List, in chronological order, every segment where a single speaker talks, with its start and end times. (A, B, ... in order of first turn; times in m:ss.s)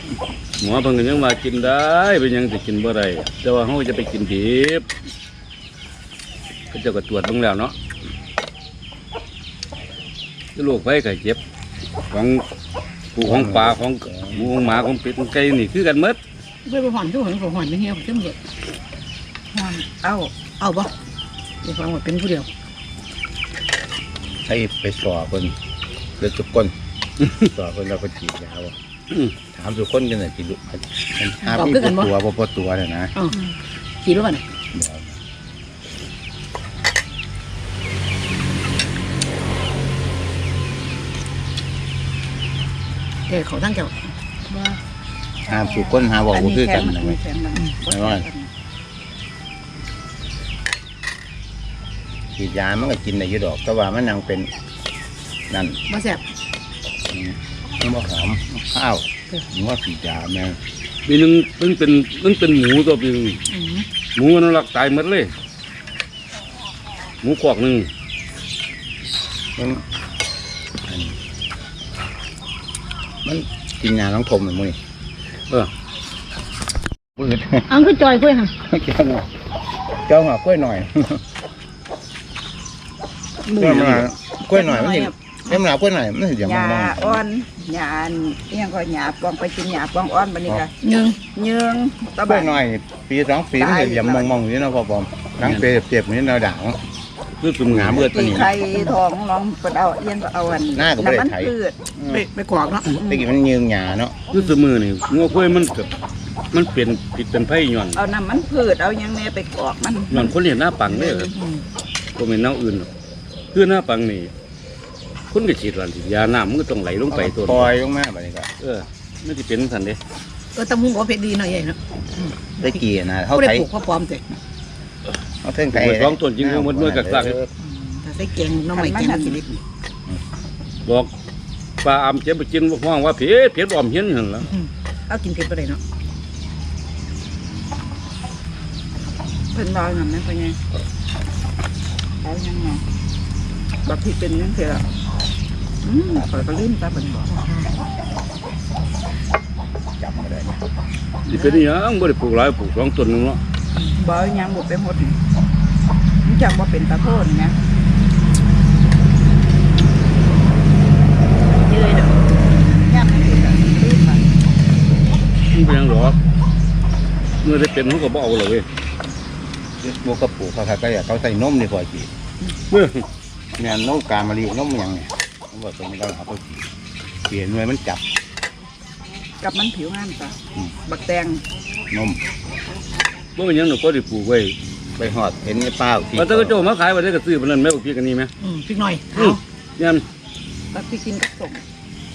0:00.6-0:04.9 A
0:06.7-0:07.7 A
0:10.6-0:11.4 A
0:12.1-0:12.4 A
0:13.1-0:16.2 A
0:13.2-0:14.6 B
0:16.6-0:18.4 C
0:19.5-0:20.3 D
0:20.6-0:20.9 C
0:21.6-0:22.5 C
0:24.4-0:25.6 B
0:26.2-0:26.7 B
0:27.4-0:28.7 B
0:29.5-0:33.1 B
0:31.4-0:32.1 C
0:34.0-0:34.4 C
0:34.7-0:35.2 B
0:43.3-0:43.9 C
0:44.5-0:44.8 D
0:45.4-0:47.2 B
0:46.3-0:48.5 D
0:47.9-0:48.2 B
0:52.4-0:54.5 B
0:55.5-0:55.8 B
0:55.9-0:56.2 C
0:57.1-1:00.6 B
1:01.0-1:03.4 A
1:03.5-1:03.8 C
1:04.2-1:05.3 A
1:07.2-1:07.9 A
1:09.6-1:09.8 B
1:10.9-1:11.2 B
1:13.2-1:14.8 B
1:17.2-1:17.8 B
1:17.7-1:18.5 C
1:18.7-1:19.2 B
1:20.0-1:21.2 B
1:23.4-1:24.1 A
1:23.6-1:27.2 B
1:24.5-1:25.1 C
1:26.4-1:30.7 D
1:30.8-1:31.2 C
1:31.3-1:32.6 D
1:32.3-1:36.8 B
1:33.6-1:34.4 D
1:35.4-1:35.7 A
1:37.4-1:38.4 A
1:37.6-1:38.6 B
1:38.1-1:41.8 D
1:40.7-1:42.3 B
1:42.1-1:43.0 C
1:42.9-1:43.2 D
1:43.0-1:44.1 B
1:44.3-1:45.9 A
1:46.5-1:48.0 A
1:47.9-1:50.3 D
1:50.1-1:51.3 A
1:50.9-1:51.4 D
1:51.4-1:51.6 C
1:52.2-1:52.9 A
1:53.5-1:54.3 A
1:55.3-1:57.7 A
1:57.1-1:58.5 B
1:58.6-2:00.0 A
2:00.5-2:02.8 C
2:02.6-2:03.7 B
2:03.4-2:04.2 C
2:05.4-2:07.5 B
2:05.7-2:07.4 A
2:07.6-2:09.6 C
2:08.7-2:09.4 D
2:10.8-2:11.1 A
2:11.8-2:14.5 A
2:14.5-2:15.8 C
2:19.5-2:20.6 D
2:22.2-2:22.8 D
2:23.8-2:24.8 D
2:25.8-2:27.3 D
2:27.3-2:27.7 C
2:30.0-2:30.6 B
2:31.3-2:33.4 A
2:31.3-2:31.6 C
2:34.0-2:35.2 D
2:36.2-2:37.6 D
2:41.4-2:44.2 D
2:45.5-2:46.2 A
2:47.4-2:48.6 A
2:49.8-2:52.1 B
2:52.7-2:53.0 A
2:53.6-2:56.6 B
2:57.3-2:58.0 B
2:59.4-3:00.3 D
3:00.8-3:01.4 D
3:01.9-3:02.2 B
3:03.4-3:04.5 A
3:05.0-3:06.7 B
3:06.2-3:08.3 A
3:08.4-3:09.4 C
3:09.1-3:10.0 A
3:10.7-3:11.6 D